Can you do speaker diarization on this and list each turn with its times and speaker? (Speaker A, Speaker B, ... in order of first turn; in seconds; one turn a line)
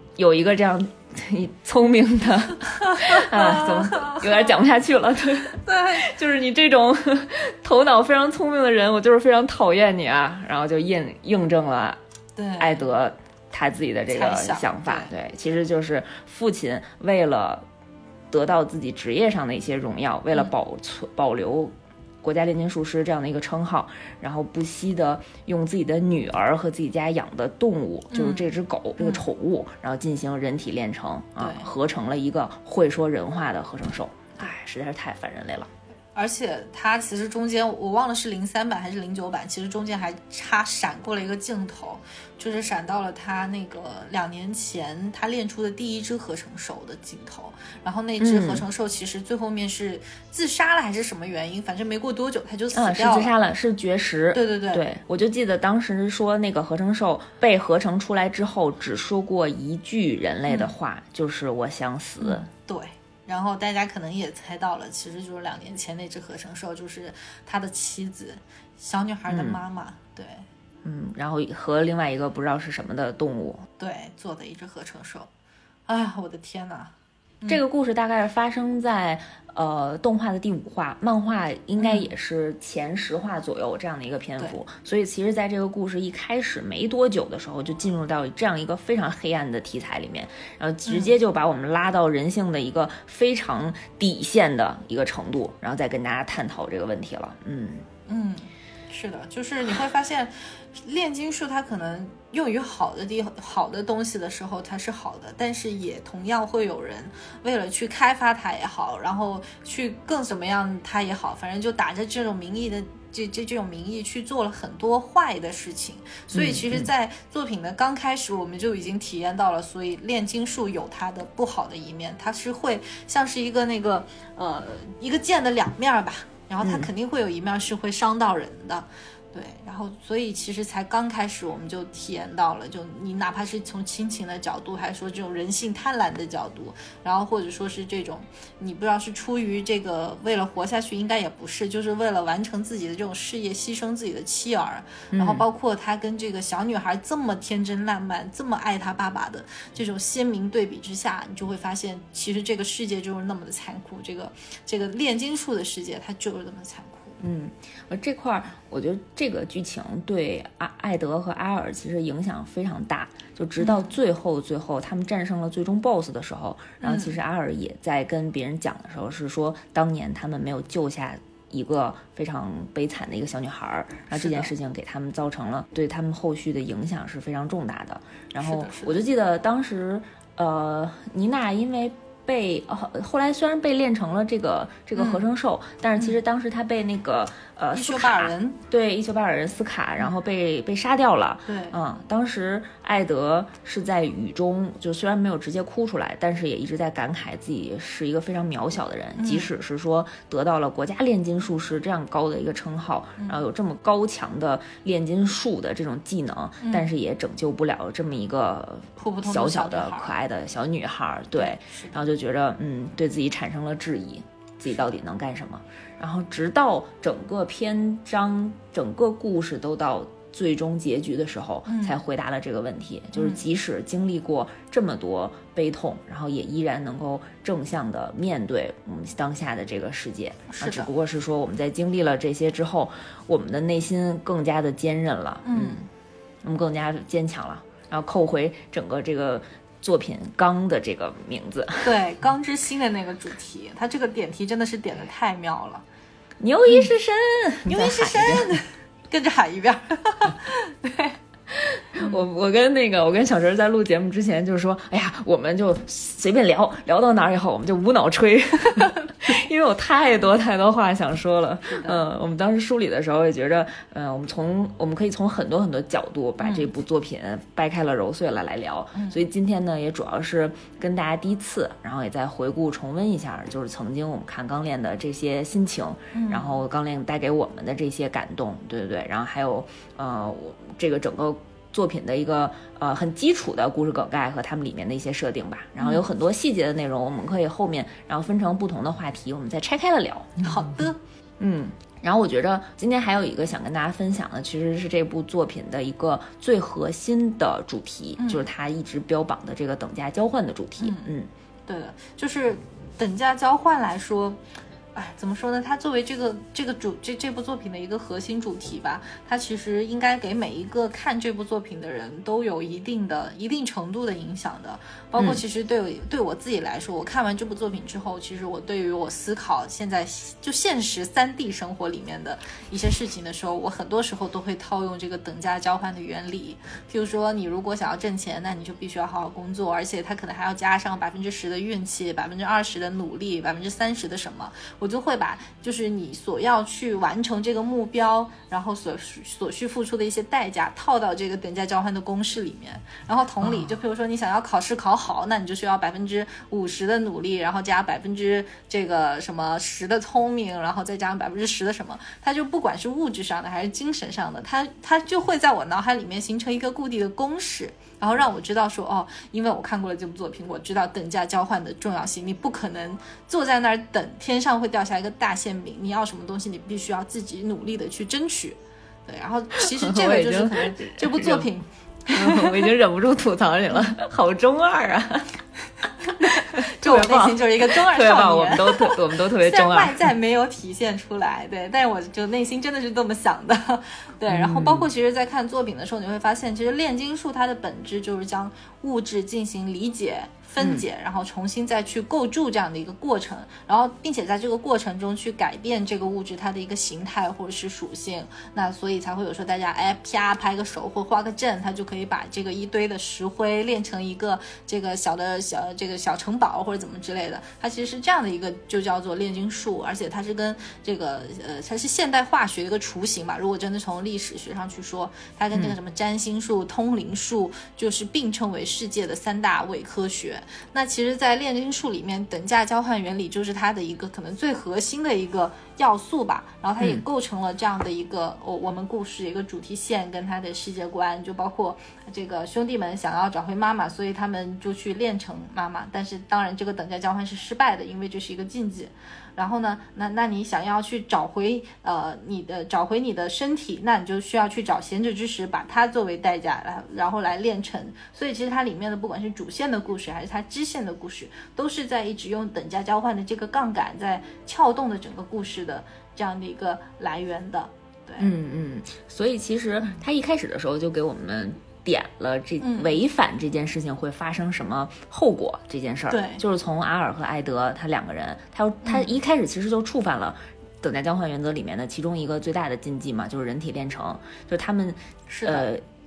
Speaker A: 0.2-12.0
Speaker B: 2.7-4.6
Speaker B: 5.5-6.1
Speaker B: 12.4-12.9
Speaker A: 12.6-17.7
Speaker B: 14.1-15.1
Speaker A: 18.3-35.7
Speaker B: 28.1-29.2
Speaker B: 31.4-31.7
Speaker B: 36.1-53.3
Speaker A: 48.2-48.6
Speaker A: 52.7-62.5
Speaker B: 54.3-54.8
Speaker B: 62.2-70.5
Speaker A: 69.3-69.6
Speaker A: 70.8-73.7
Speaker B: 73.8-75.3
Speaker B: 75.9-77.6
Speaker A: 77.5-97.9
Speaker B: 81.8-82.1
Speaker B: 90.9-91.2
Speaker B: 98.1-157.2
Speaker A: 116.3-116.9
Speaker A: 126.6-126.9
Speaker A: 145.1-145.4
Speaker A: 157.2-235.9
Speaker B: 163.6-163.9
Speaker B: 166.8-167.2
Speaker B: 174.1-174.5
Speaker B: 178.4-179.1
Speaker B: 185.0-185.3
Speaker B: 187.7-188.6
Speaker B: 191.5-191.8
Speaker B: 199.2-199.5
Speaker B: 206.6-206.9
Speaker B: 209.0-210.1
Speaker B: 211.4-212.0
Speaker B: 221.7-221.9
Speaker B: 223.1-223.4
Speaker B: 230.5-230.9
Speaker B: 235.4-235.8
Speaker A: 236.4-241.9
Speaker B: 241.8-245.8
Speaker A: 246.4-248.5
Speaker B: 247.7-251.2
Speaker A: 251.5-290.4
Speaker B: 252.0-252.2
Speaker B: 261.7-262.0
Speaker B: 266.4-266.7
Speaker B: 268.9-269.2
Speaker B: 276.1-276.6
Speaker B: 285.8-286.1
Speaker B: 290.4-291.0
Speaker A: 291.4-301.3
Speaker B: 298.2-298.4
Speaker B: 300.8-301.1
Speaker B: 301.7-304.4
Speaker B: 304.9-372.7
Speaker A: 343.4-343.7
Speaker A: 369.6-371.5
Speaker A: 372.1-375.4
Speaker B: 376.1-458.3
Speaker A: 376.2-380.0
Speaker A: 384.3-384.9
Speaker A: 390.6-390.9
Speaker A: 458.2-475.8
Speaker B: 462.6-463.0
Speaker B: 466.1-466.4
Speaker B: 475.3-475.7